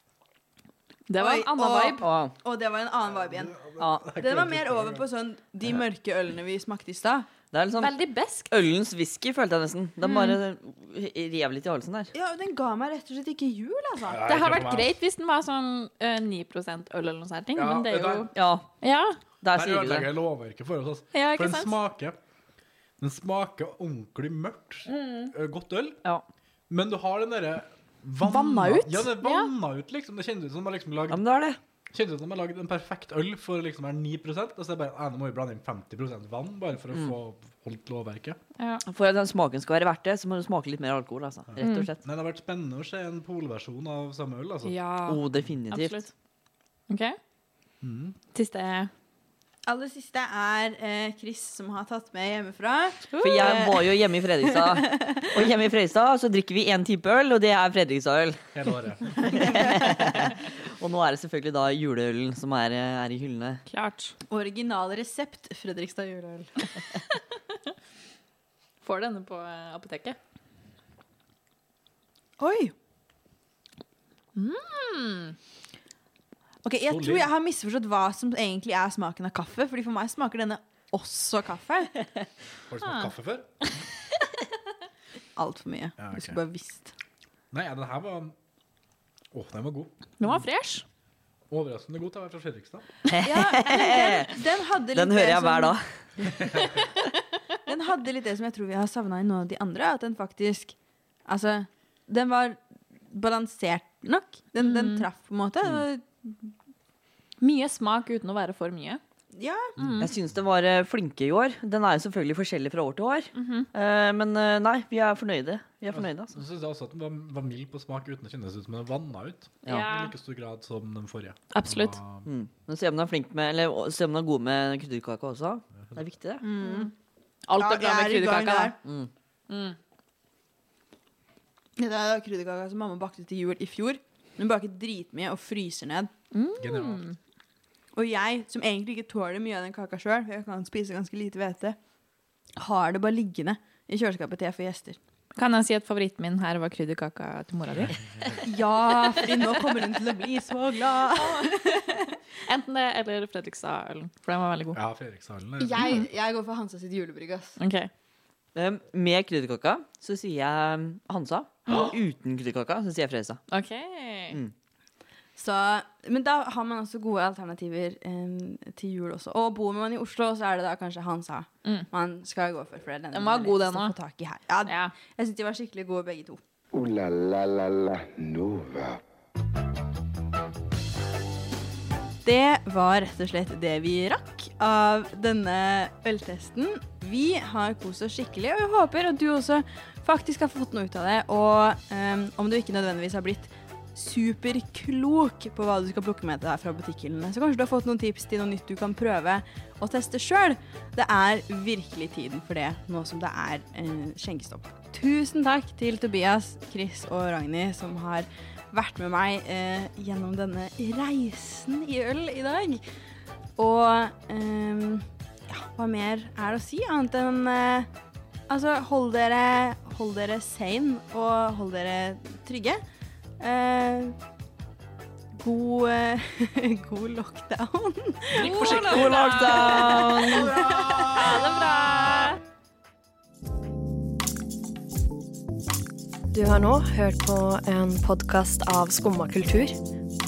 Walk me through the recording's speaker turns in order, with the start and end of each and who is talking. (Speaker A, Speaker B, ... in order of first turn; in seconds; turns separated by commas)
Speaker A: 1.1-2.0, Speaker B: 1.2-7.3, Speaker C: 2.0-2.3, Speaker D: 3.0-5.0, Speaker C: 3.8-4.0, Speaker C: 7.5-12.1, Speaker A: 7.8-8.5, Speaker A: 10.0-10.4, Speaker B: 12.1-14.2, Speaker D: 14.1-15.0, Speaker A: 14.2-18.3, Speaker D: 17.5-18.3, Speaker C: 18.3-18.7, Speaker A: 18.8-19.2, Speaker C: 19.4-20.1, Speaker D: 19.5-22.2, Speaker A: 21.1-21.7, Speaker D: 23.0-26.0, Speaker A: 24.9-25.3, Speaker D: 26.7-31.2, Speaker A: 28.2-29.5, Speaker C: 31.1-31.6, Speaker D: 31.9-38.4, Speaker C: 38.8-42.0, Speaker D: 41.5-44.8, Speaker A: 41.6-41.9, Speaker A: 44.6-46.1, Speaker C: 45.0-46.0, Speaker A: 46.9-47.2, Speaker D: 47.8-48.1, Speaker A: 48.3-48.9, Speaker B: 49.7-55.3, Speaker A: 53.1-53.6, Speaker C: 53.2-58.4, Speaker D: 58.5-59.4, Speaker C: 59.2-63.6, Speaker A: 63.7-64.2, Speaker B: 64.3-66.5, Speaker A: 68.8-70.2, Speaker B: 72.4-72.7, Speaker A: 74.3-75.3, Speaker B: 76.6-81.9, Speaker D: 76.9-77.3, Speaker D: 82.7-83.5, Speaker A: 82.8-83.1, Speaker B: 85.3-86.9, Speaker D: 86.0-86.4, Speaker D: 87.5-88.3, Speaker D: 89.3-89.9, Speaker A: 90.2-90.8, Speaker D: 91.5-92.8, Speaker C: 93.1-94.4, Speaker B: 93.2-95.8, Speaker C: 94.9-95.8, Speaker D: 96.2-96.8, Speaker B: 97.6-100.7, Speaker B: 101.3-106.5, Speaker A: 104.6-105.0, Speaker A: 107.4-109.0, Speaker B: 109.3-109.7, Speaker D: 109.8-110.0, Speaker A: 109.8-110.0, Speaker C: 110.0-116.4, Speaker A: 113.3-113.7, Speaker D: 115.9-122.2, Speaker C: 119.6-119.9, Speaker A: 119.7-120.1, Speaker A: 121.5-122.0, Speaker C: 122.2-126.4, Speaker B: 126.4-126.9, Speaker A: 126.6-126.9, Speaker A: 127.5-128.8, Speaker B: 127.6-128.8, Speaker C: 128.8-129.1, Speaker A: 129.5-129.8, Speaker B: 131.8-136.1, Speaker A: 136.3-137.2, Speaker D: 136.6-137.1, Speaker B: 137.9-141.8, Speaker B: 142.6-145.0, Speaker A: 145.3-148.5, Speaker B: 148.4-152.1, Speaker A: 149.3-149.8, Speaker A: 151.2-151.7, Speaker A: 152.4-154.8, Speaker D: 154.7-156.1, Speaker B: 155.6-157.6, Speaker A: 157.6-157.9, Speaker C: 158.5-163.4, Speaker A: 163.5-164.4, Speaker B: 165.3-176.4, Speaker A: 173.1-173.9, Speaker A: 174.7-174.9, Speaker E: 176.7-179.0, Speaker B: 182.2-212.8, Speaker B: 213.6-217.9, Speaker B: 218.5-222.8, Speaker B: 223.4-224.2, Speaker B: 225.3-228.4, Speaker D: 228.3-231.5, Speaker A: 228.3-232.4, Speaker C: 228.7-230.5, Speaker B: 230.5-231.1, Speaker F: 236.3-239.8